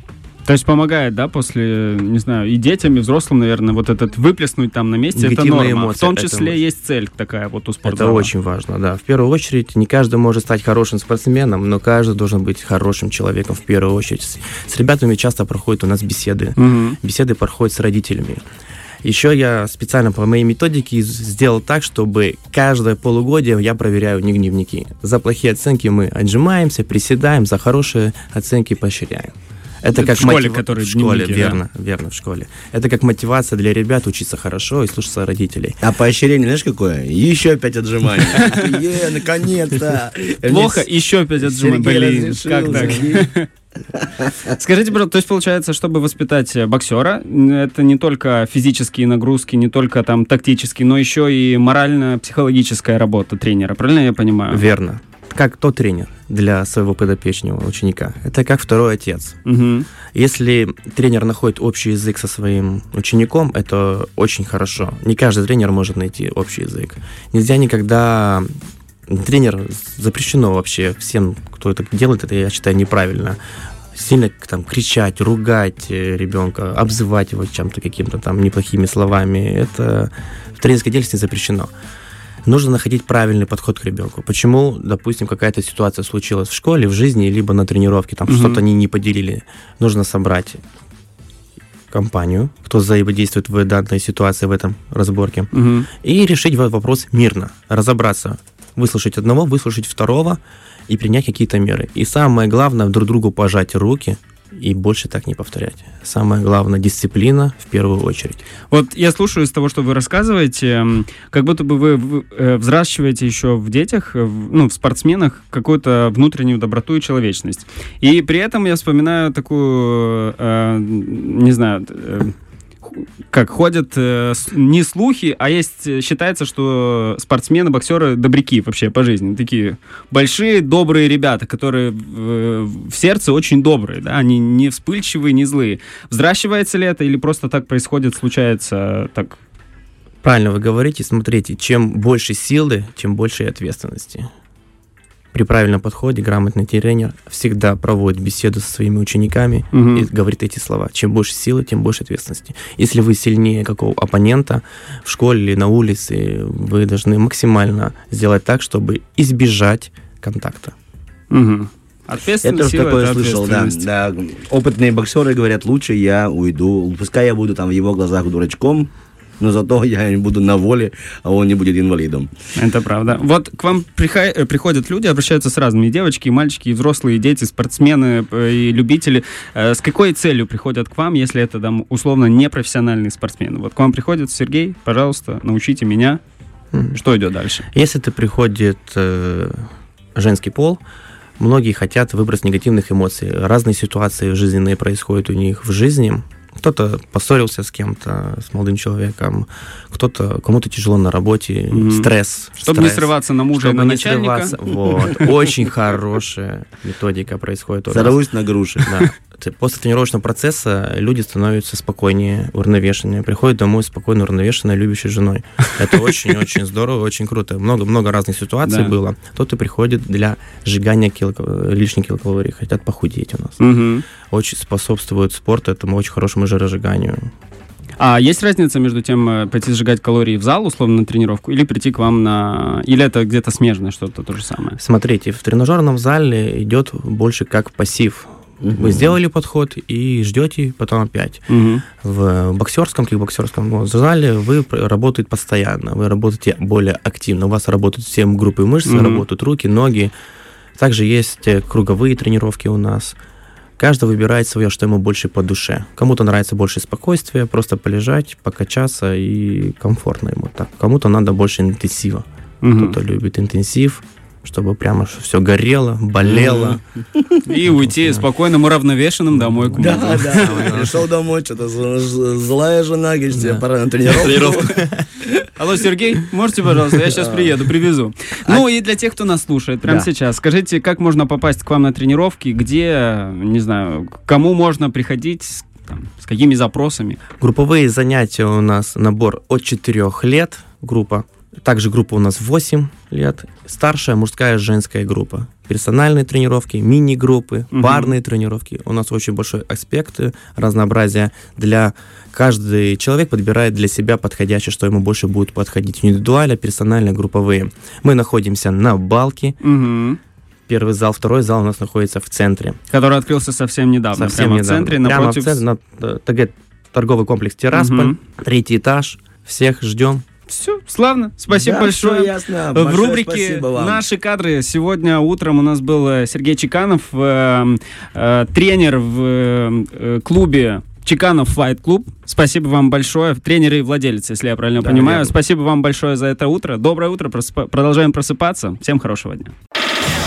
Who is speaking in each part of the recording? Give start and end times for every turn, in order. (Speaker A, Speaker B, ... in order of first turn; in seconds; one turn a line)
Speaker A: 0.4-8.3
Speaker B: 5.1-6.6
Speaker B: 7.8-18.4
Speaker A: 16.6-17.0
Speaker B: 19.0-35.8
Speaker A: 29.9-31.6
Speaker C: 35.8-40.9
Speaker A: 38.3-38.8
Speaker A: 40.5-43.5
Speaker C: 41.4-43.3
Speaker B: 42.7-43.0
Speaker A: 44.5-54.6
Speaker B: 54.5-59.4
Speaker A: 59.4-59.9
Speaker B: 60.1-68.5
Speaker B: 69.1-73.4
Speaker B: 73.9-81.7
Speaker B: 82.5-90.6
Speaker A: 88.3-88.6
Speaker B: 91.9-95.5
Speaker A: 95.5-95.9
Speaker B: 96.0-108.4
Speaker A: 108.7-139.4
Speaker B: 140.2-144.3
Speaker B: 145.3-160.7
Speaker A: 149.7-150.1
Speaker A: 161.3-163.8
Speaker C: 162.4-172.3
Speaker A: 172.6-186.2
Speaker A: 186.9-187.7
Speaker B: 187.7-189.6
Speaker B: 190.2-190.8
Speaker B: 191.4-208.2
Speaker A: 201.7-205.3
Speaker C: 207.9-209.0
Speaker B: 208.8-223.6
Speaker A: 218.6-218.9
Speaker A: 223.6-224.0
Speaker B: 224.3-227.3
Speaker A: 228.0-234.8
Speaker B: 234.8-241.4
Speaker C: 238.6-239.1
Speaker A: 241.5-241.8
Speaker B: 242.0-250.1
Speaker A: 248.8-249.2
Speaker B: 250.8-253.2
Speaker B: 253.8-266.8
Speaker A: 262.6-263.0
Speaker C: 266.3-267.4
Speaker A: 267.4-270.9
Speaker B: 267.6-268.2
Speaker B: 269.3-271.0
Speaker C: 269.8-274.5
Speaker B: 273.4-275.1
Speaker A: 274.3-274.8
Speaker A: 275.5-287.2
Speaker C: 277.2-277.5
Speaker B: 287.4-309.6
Speaker A: 297.7-298.1
Speaker A: 309.6-310.2
Speaker B: 310.7-312.8
Speaker A: 312.9-315.6
Speaker B: 314.1-320.2
Speaker A: 317.7-318.1
Speaker A: 320.5-339.5
Speaker C: 321.5-324.0
Speaker B: 334.8-335.2